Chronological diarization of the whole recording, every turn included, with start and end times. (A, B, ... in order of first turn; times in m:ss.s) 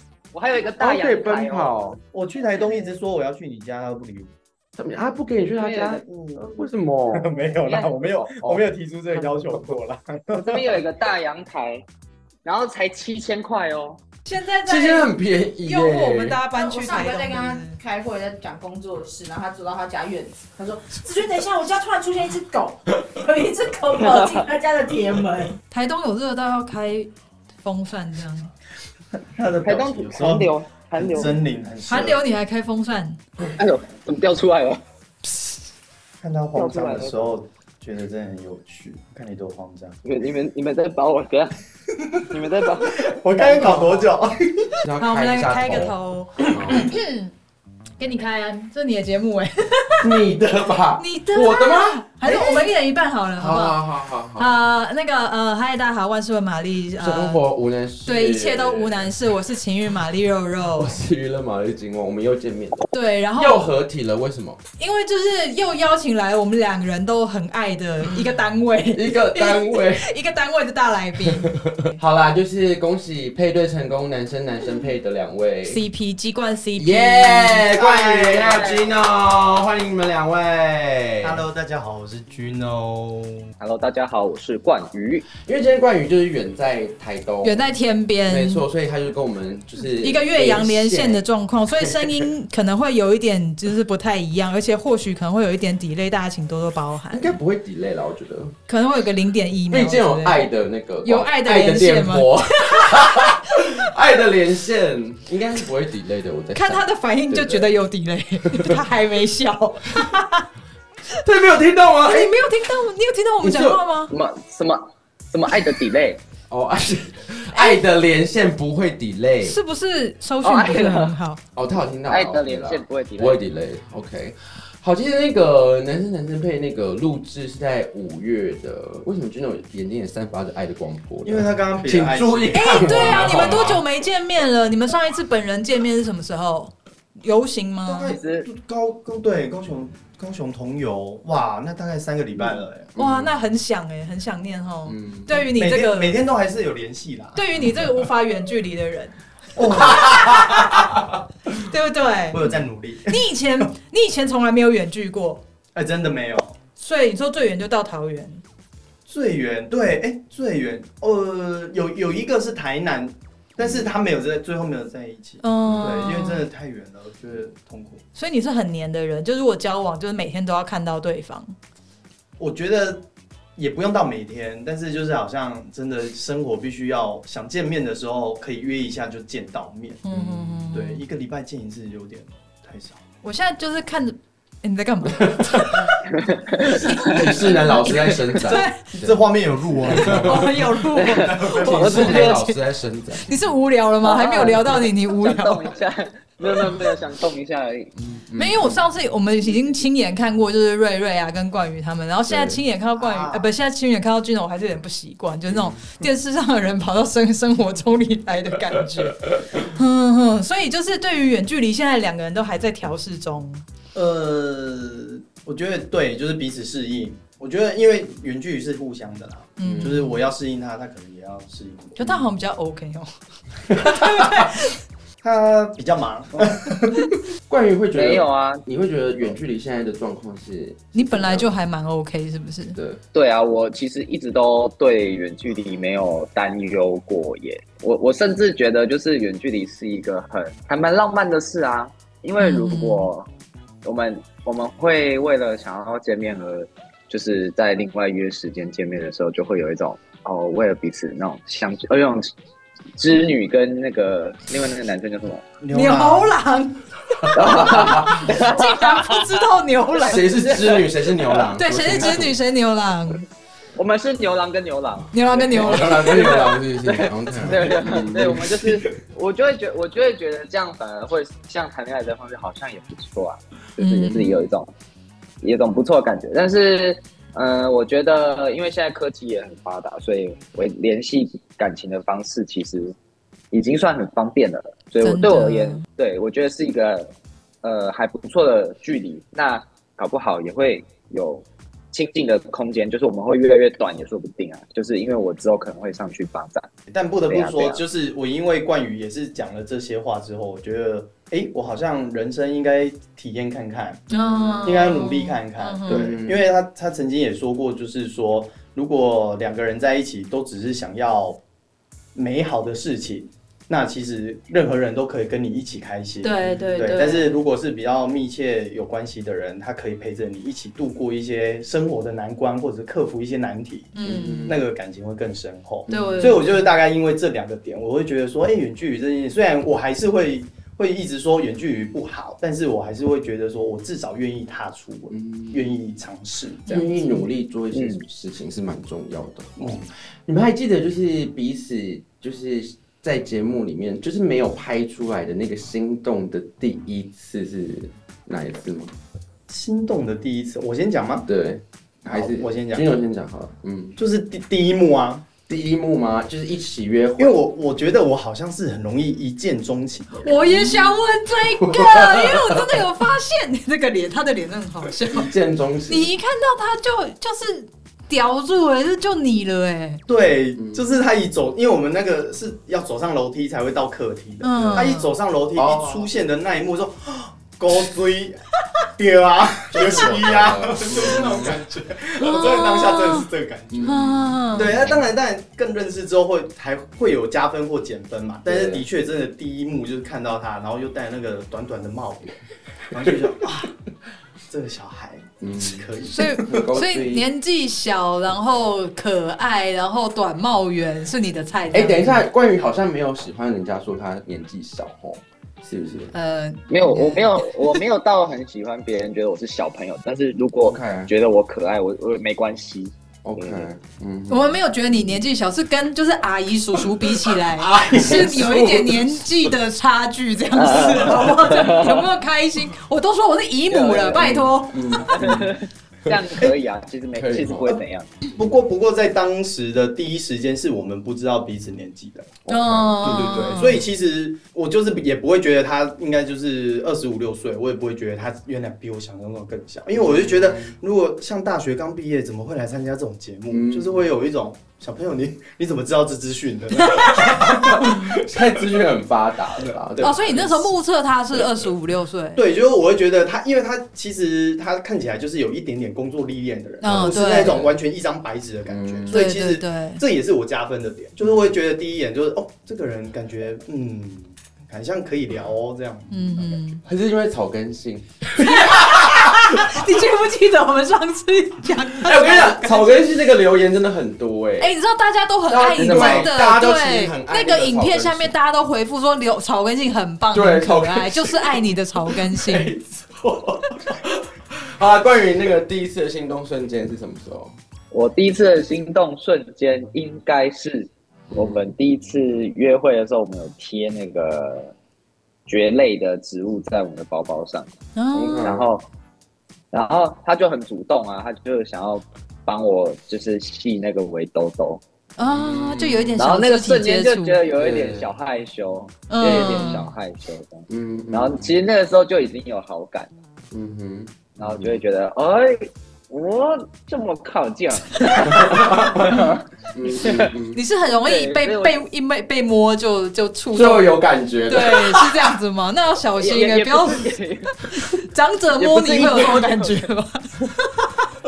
0:00.3-0:01.8 A
0:00.8-0:02.0 B
0:02.1-0:04.3 C
0:04.8-0:08.6 B
0:05.6-0:06.0 A
0:06.0-0:06.5 C
0:07.1-0:10.8 C
0:09.2-0:09.8 B
0:10.3-0:11.8 A
0:12.4-0:14.0 A
0:14.2-0:17.8 D
0:14.6-0:16.4 B
0:16.5-0:25.6 E
0:24.1-0:24.4 A
0:25.7-0:27.1 D
0:27.6-0:28.5 D
0:29.3-0:32.2 C
0:29.6-0:31.4 A
0:31.8-0:33.2 D
0:33.4-0:34.8 A
0:36.2-0:40.0 C
0:36.5-0:37.3 A
0:40.0-0:41.6 A
0:42.1-0:44.8 C
0:42.2-0:44.1 A
0:44.8-0:46.9 B
0:45.0-0:47.3 D
0:46.5-0:46.7 C
0:48.0-0:50.2 D
0:50.0-0:52.6 B
0:51.0-0:53.8 D
0:53.4-0:54.5 B
0:54.3-0:57.4 D
0:57.0-0:59.1 B
0:58.0-1:01.0 D
1:00.8-1:04.6 B
1:02.9-1:03.7 D
1:04.8-1:12.0 D
1:08.9-1:10.1 B
1:11.2-1:15.8 B
1:15.6-1:17.7 D
1:16.8-1:21.4 B
1:17.7-1:18.7 C
1:18.4-1:18.9 A
1:21.2-1:23.4 C
1:23.6-1:25.3 A
1:25.3-1:27.6 B
1:27.4-1:28.6 D
1:28.3-1:31.2 B
1:29.8-1:37.4 D
1:31.8-1:32.3 B
1:37.1-1:38.5 B
1:38.7-1:40.5 D
1:39.7-1:47.7 B
1:41.0-1:43.8 D
1:46.5-1:50.5 D
1:48.5-1:48.8 B
1:51.1-1:52.4 B
1:52.0-1:54.1 D
1:53.4-1:53.8 B
1:54.1-1:56.2 A
1:56.5-1:59.6 B
1:57.5-1:57.8 D
1:59.4-2:01.4 D
2:00.4-2:01.2 A
2:01.5-2:13.8 B
2:02.1-2:03.4 A
2:11.2-2:13.7 C
2:12.5-2:18.2 D
2:17.9-2:22.9 C
2:18.0-2:18.5 A
2:22.5-2:23.4 B
2:23.0-2:26.2 D
2:24.8-2:25.5 B
2:25.5-2:27.4 C
2:27.3-2:29.2 D
2:27.6-2:27.9 B
2:29.5-2:30.9 C
2:29.7-2:31.0 B
2:29.7-2:30.9 D
2:31.6-2:32.4 D
2:32.3-2:33.3 C
2:33.1-2:35.4 D
2:35.7-2:36.6 C
2:36.8-2:38.4 D
2:39.1-2:48.0 C
2:43.6-2:43.9 B
2:45.4-2:46.4 D
2:45.8-2:46.1 B
2:48.1-2:51.5 D
2:52.4-3:00.0 C
3:00.0-3:01.0 D
3:00.1-3:00.7 B
3:00.7-3:03.0 C
3:03.2-3:06.0 D
3:05.1-3:05.8 B
3:06.2-3:06.8 A
3:06.6-3:08.8 D
3:06.8-3:09.2 B
3:08.3-3:12.3 C
3:09.8-3:10.6 B
3:09.9-3:12.6 D
3:10.9-3:12.3 A
3:11.6-3:13.4 B
3:13.2-3:15.7 D
3:14.0-3:17.9 A
3:18.0-3:18.8 B
3:18.4-3:33.6 D
3:22.3-3:22.6 B
3:23.0-3:23.5 C
3:25.5-3:25.8 B
3:33.9-3:42.2 C
3:39.6-3:40.2 D
3:39.6-3:40.0 B
3:42.0-3:43.1 D
3:43.7-3:44.8 D
3:44.0-3:44.4 B
3:45.2-3:47.1 C
3:47.3-3:51.5 B
3:47.9-3:48.6 A
3:50.9-3:52.8 D
3:52.7-3:53.0 B
3:53.1-4:03.3 A
4:02.4-4:03.1 D
4:03.8-4:12.3 A
4:13.0-4:15.4 A
4:15.6-4:16.3 C
4:15.7-4:20.3 D
4:17.2-4:18.3 B
4:17.3-4:19.2 A
4:20.0-4:22.4 B
4:20.1-4:21.5 A
4:21.6-4:23.2 D
4:23.8-4:34.7 A
4:25.1-4:26.5 D
4:25.5-4:28.8 B
4:33.8-4:34.3 D
4:34.1-4:34.5 B
4:35.4-4:42.9 A
4:43.5-4:47.1 A
4:45.0-4:45.8 D
4:47.6-4:56.7 A
4:56.9-5:04.1 C
4:57.3-4:57.8 A
5:04.1-5:06.1 D
5:04.1-5:04.9 B
5:04.6-5:11.4 C
5:05.8-5:06.5 B
5:12.1-5:37.2 C
5:16.2-5:17.3 D
5:23.9-5:24.6 D
5:24.0-5:24.7 B
5:25.9-5:26.4 B
5:25.9-5:26.7 D
5:35.1-5:35.7 B
5:36.7-5:48.9 B
5:37.7-5:38.0 A
5:39.6-5:39.9 C
5:49.5-5:51.3 C
5:51.3-5:54.0 B
5:52.0-5:52.9 C
5:54.0-5:55.2 C
5:55.5-5:57.4 B
5:57.2-6:00.4 C
6:00.2-6:05.3 D
6:00.5-6:00.9 B
6:01.6-6:02.8 B
6:05.0-6:06.1 B
6:05.9-6:10.0 D
6:10.1-6:18.4 C
6:10.6-6:10.9 B
6:14.4-6:15.1 D
6:15.5-6:16.1 B
6:19.0-6:24.0 C
6:19.7-6:21.6 B
6:22.2-6:22.6 B
6:22.2-6:23.3 D
6:23.7-6:25.0 B
6:23.8-6:24.7 D
6:24.5-6:32.4 C
6:28.4-6:28.8 B
6:32.9-6:33.6 C
6:33.0-6:33.3 B
6:34.5-6:36.6 C
6:35.4-6:37.3 B
6:36.1-6:42.2 D
6:41.7-6:46.1 B
6:46.1-6:47.4 D
6:46.7-6:53.7 A
6:50.6-6:51.1 B
6:53.2-6:54.5 B
6:54.3-7:05.0 D
6:57.3-6:59.5 B
7:00.5-7:02.1 A
7:03.7-7:04.4 A
7:04.2-7:06.2 B
7:05.1-7:08.1 A
7:07.1-7:07.8 B
7:08.3-7:28.8 C
7:12.5-7:13.0 B
7:12.5-7:13.8 D
7:19.9-7:20.7 B
7:23.5-7:24.1 B
7:26.8-7:27.9 D
7:27.4-7:30.7 B
7:29.6-7:30.4 C
7:30.0-7:32.4 D
7:31.3-7:31.7 B
7:32.4-7:46.6 C
7:36.8-7:37.6 D
7:36.8-7:37.8 B
7:38.6-7:39.2 B
7:39.1-7:40.0 D
7:41.2-7:41.5 B
7:46.1-7:46.8 D
7:46.8-7:49.9 B
7:48.4-7:53.1 D
7:51.9-7:54.7 B
7:54.6-8:02.7 D
7:55.5-7:58.3 B
7:55.8-7:56.3 A
8:00.3-8:07.6 B
8:07.9-8:14.7 A
8:11.3-8:11.7 B
8:15.5-8:17.7 A
8:18.0-8:18.5 D
8:18.1-8:18.7 B
8:18.4-8:18.8 A
8:19.7-8:24.8 A
8:25.2-8:27.4 D
8:25.2-8:26.2 B
8:26.2-8:33.1 A
8:27.5-8:28.1 B
8:29.1-8:29.9 D
8:29.2-8:29.8 B
8:30.7-8:31.6 B
8:33.5-8:34.8 B
8:34.4-8:40.3 A
8:38.2-8:40.6 B
8:40.5-8:47.1 D
8:41.0-8:41.8 A
8:43.5-8:45.3 B
8:46.2-8:47.6 A
8:47.6-8:51.0 D
8:48.6-8:49.9 A